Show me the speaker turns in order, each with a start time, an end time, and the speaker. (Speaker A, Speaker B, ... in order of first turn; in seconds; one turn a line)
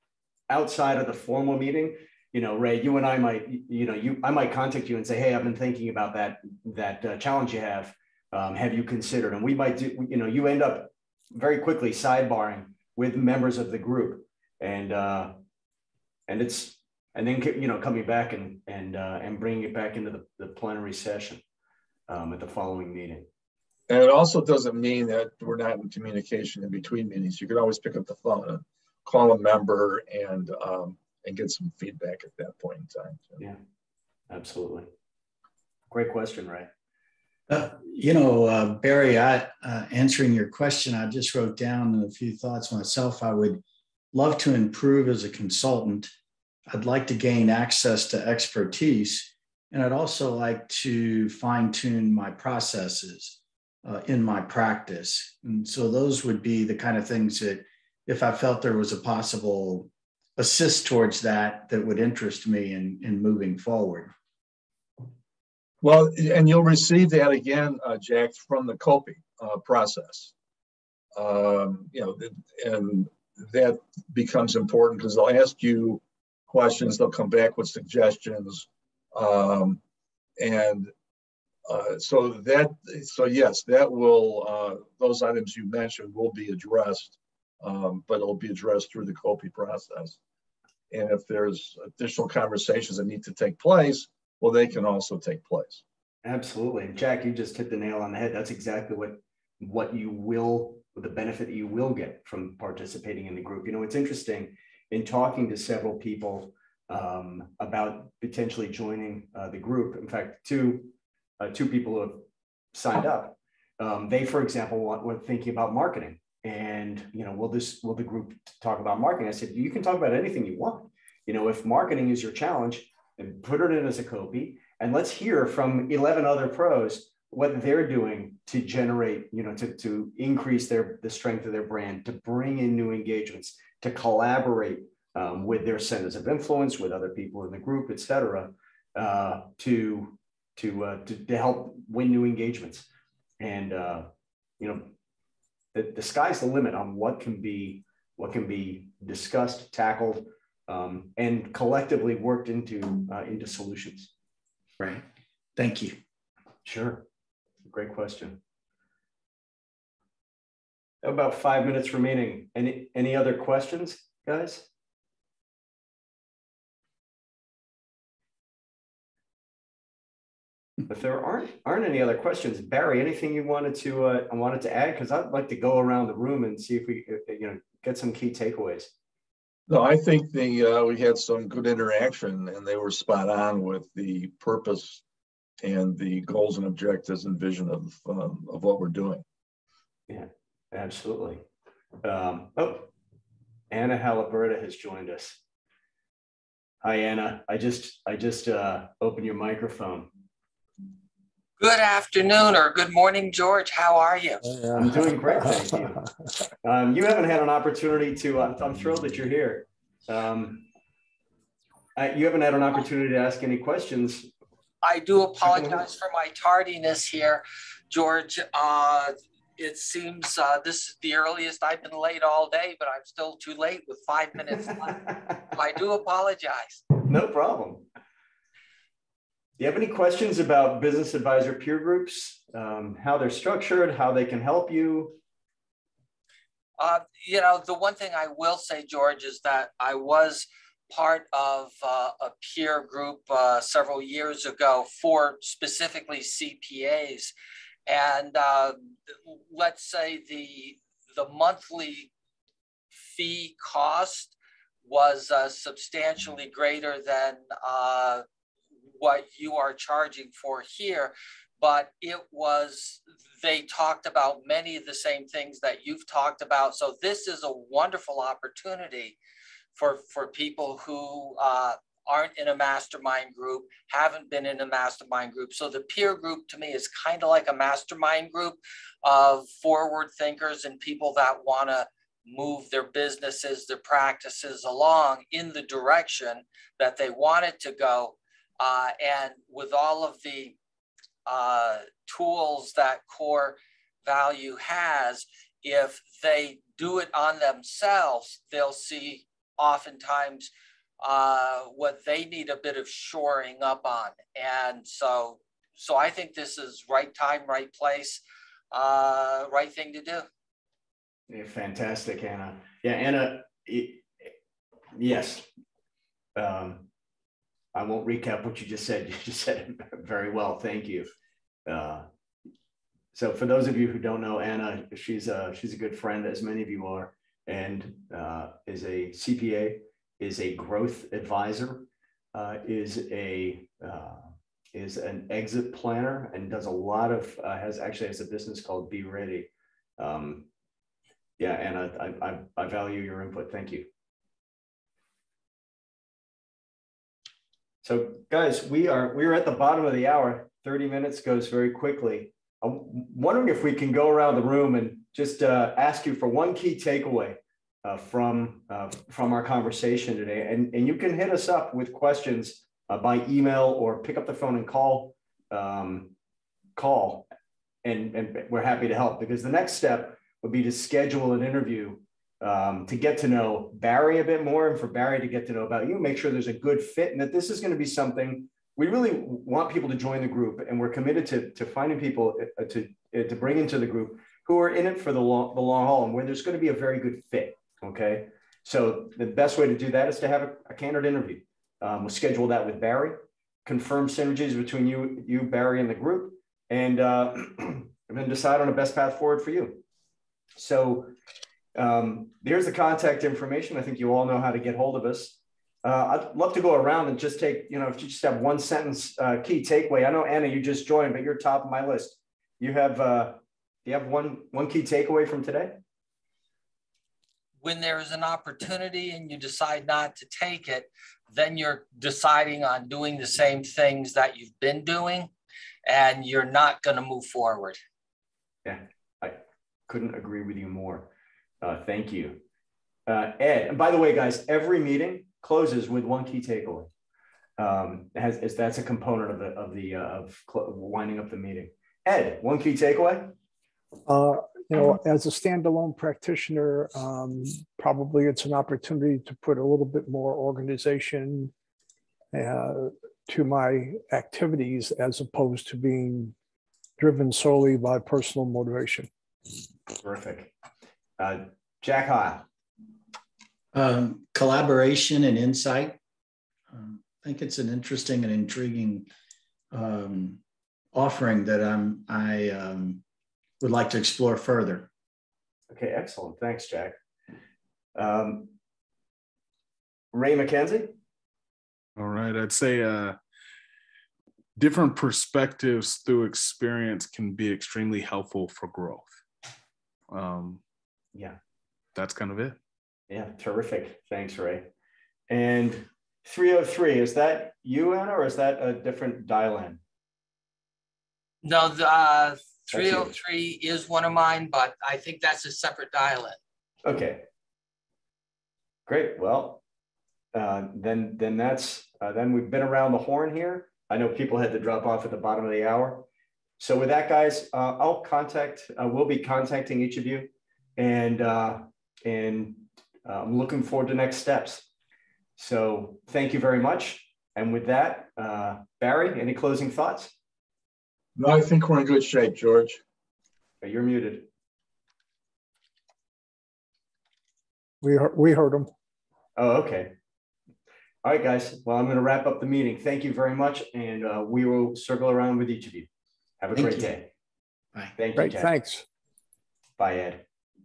Speaker A: 0.5-15.3
Speaker A: 16.3-21.4
Speaker A: 22.1-23.3
Speaker B: 23.9-33.4
Speaker A: 34.3-34.9
Speaker A: 35.9-36.7
Speaker C: 37.5-43.6
Speaker C: 44.1-46.1
Speaker C: 46.7-64.1
Speaker B: 65.8-70.3
Speaker B: 71.2-79.8
Speaker B: 80.4-80.9
Speaker B: 81.7-90.2
Speaker B: 90.9-95.8
Speaker A: 96.2-142.9
Speaker A: 143.4-144.1
Speaker A: 144.6-144.9
Speaker A: 145.7-154.1
Speaker C: 154.8-155.0
Speaker C: 155.6-156.0
Speaker A: 156.7-157.0
Speaker A: 157.7-158.4
Speaker A: 161.0-164.7
Speaker A: 170.9-178.9
Speaker B: 179.7-185.0
Speaker B: 185.6-189.2
Speaker A: 190.1-191.4
Speaker A: 192.0-192.9
Speaker A: 193.7-195.4
Speaker A: 196.8-200.1
Speaker D: 201.6-204.4
Speaker E: 204.5-205.6
Speaker A: 204.8-206.0
Speaker A: 206.6-210.7
Speaker A: 212.0-214.3
Speaker D: 214.8-226.9
Speaker A: 215.4-215.9
Speaker A: 227.1-227.9
Speaker A: 229.6-235.2
Speaker D: 236.8-247.3
Speaker D: 247.9-252.1
Speaker D: 252.9-258.3
Speaker D: 258.9-269.2
Speaker D: 269.8-290.6
Speaker D: 291.3-310.3
Speaker A: 311.3-314.3
Speaker A: 315.0-315.5
Speaker A: 316.4-316.9
Speaker A: 317.8-321.1
Speaker A: 321.7-322.1
Speaker A: 323.1-340.5
Speaker A: 341.4-343.9
Speaker A: 347.8-366.1
Speaker A: 366.8-367.3
Speaker A: 367.8-399.8
Speaker A: 400.6-401.1
Speaker A: 401.8-415.8
Speaker D: 417.6-425.3
Speaker D: 425.9-427.8
Speaker A: 428.6-431.1
Speaker A: 431.6-432.4
Speaker A: 433.1-436.9
Speaker A: 437.6-443.3
Speaker E: 444.1-451.5
Speaker E: 452.3-456.4
Speaker E: 457.0-459.1
Speaker A: 460.0-460.5
Speaker A: 461.2-462.4
Speaker C: 463.7-466.0
Speaker C: 466.7-469.1
Speaker C: 469.7-470.4
Speaker C: 470.9-473.0
Speaker C: 473.6-474.9
Speaker A: 475.7-477.0
Speaker A: 478.0-478.5
Speaker A: 480.1-480.9
Speaker F: 482.0-483.2
Speaker F: 484.6-489.2
Speaker F: 490.1-490.6
Speaker F: 491.9-492.6
Speaker A: 493.1-494.7
Speaker A: 495.3-499.8
Speaker D: 501.4-506.4
Speaker A: 502.7-503.1
Speaker A: 506.9-507.2
Speaker A: 508.9-509.6
Speaker A: 510.3-516.0
Speaker A: 516.6-524.7
Speaker A: 525.4-530.1
Speaker B: 531.2-532.8
Speaker A: 533.6-534.3
Speaker E: 537.8-538.7
Speaker A: 539.4-539.9
Speaker A: 541.0-545.9
Speaker A: 546.4-547.1
Speaker C: 546.6-546.9
Speaker A: 548.0-548.5
Speaker E: 548.2-548.9
Speaker A: 549.8-550.2